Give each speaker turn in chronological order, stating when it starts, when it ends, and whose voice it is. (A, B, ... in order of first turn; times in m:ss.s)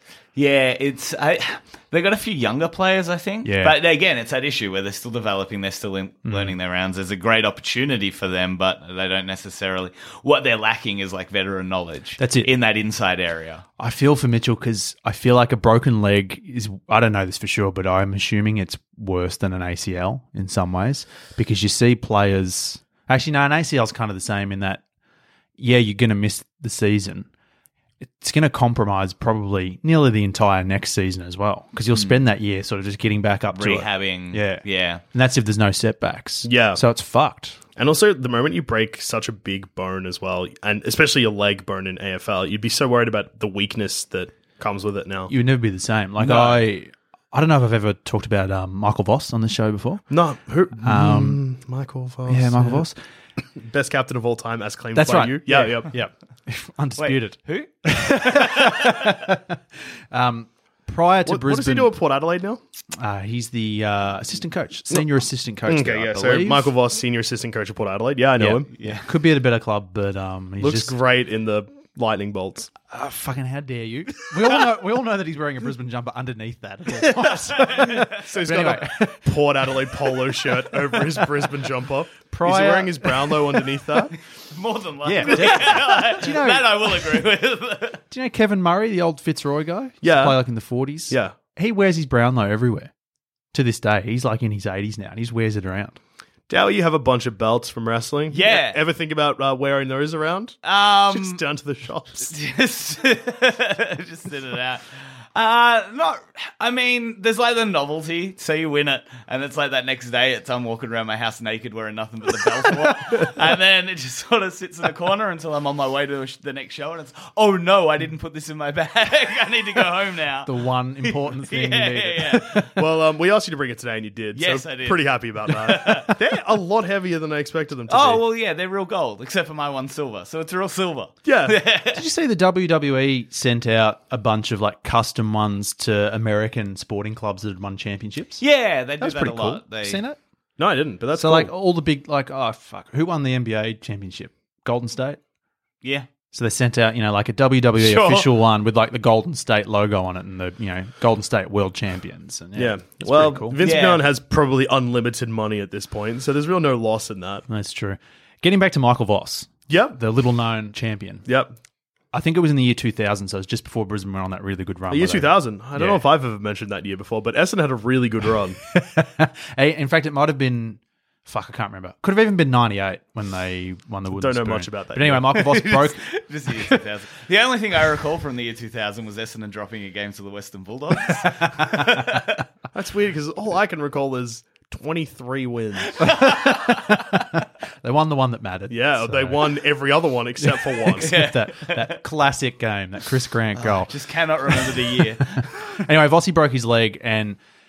0:00.3-0:13.6 A
0:03.4-0:03.7 B
0:06.2-0:06.5 B
0:12.2-0:12.5 B
0:13.8-0:24.8 B
0:25.6-0:27.3 B
0:28.0-0:37.6 B
0:31.9-0:32.2 A
0:33.5-0:35.0 A
0:36.4-0:36.8 C
0:37.8-0:45.3 C
0:45.3-0:50.0 B
0:46.2-0:46.6 C
0:50.1-0:52.9 C
0:50.8-0:51.4 B
0:52.3-0:53.0 B
0:53.5-0:55.9 C
0:54.9-0:59.6 B
0:57.0-0:59.2 A
1:00.1-1:01.9 B
1:01.2-1:02.6 C
1:03.0-1:06.7 B
1:05.6-1:08.7 C
1:08.4-1:10.9 B
1:08.8-1:09.1 A
1:10.6-1:12.7 C
1:12.9-1:19.3 B
1:17.5-1:18.1 A
1:17.6-1:24.1 C
1:22.3-1:23.5 B
1:24.5-1:28.0 A
1:25.0-1:27.2 B
1:28.1-1:32.9 B
1:30.0-1:30.4 C
1:31.1-1:31.4 C
1:33.5-1:36.0 B
1:36.5-1:42.3 C
1:38.3-1:38.8 A
1:40.6-1:41.4 A
1:42.3-2:02.7 A
2:00.4-2:02.7 B
2:02.7-2:08.2 C
2:04.3-2:06.1 A
2:07.9-2:12.0 A
2:11.2-2:11.6 C
2:11.9-2:18.4 B
2:18.4-2:20.0 A
2:19.0-2:20.2 B
2:20.6-2:21.5 C
2:21.1-2:25.2 B
2:26.3-2:33.6 B
2:27.8-2:28.3 A
2:32.6-2:37.4 C
2:33.6-2:34.0 A
2:37.5-2:41.2 B
2:39.7-2:40.0 C
2:41.2-2:41.5 C
2:42.1-2:46.0 B
2:44.9-2:48.6 C
2:48.7-2:56.0 B
2:54.1-2:55.4 C
2:55.3-3:02.4 A
3:01.1-3:02.2 B
3:02.7-3:06.0 C
3:06.0-3:09.5 B
3:06.2-3:06.8 A
3:08.7-3:11.1 C
3:10.4-3:13.9 B
3:11.0-3:12.0 A
3:13.6-3:15.5 A
3:14.5-3:17.4 B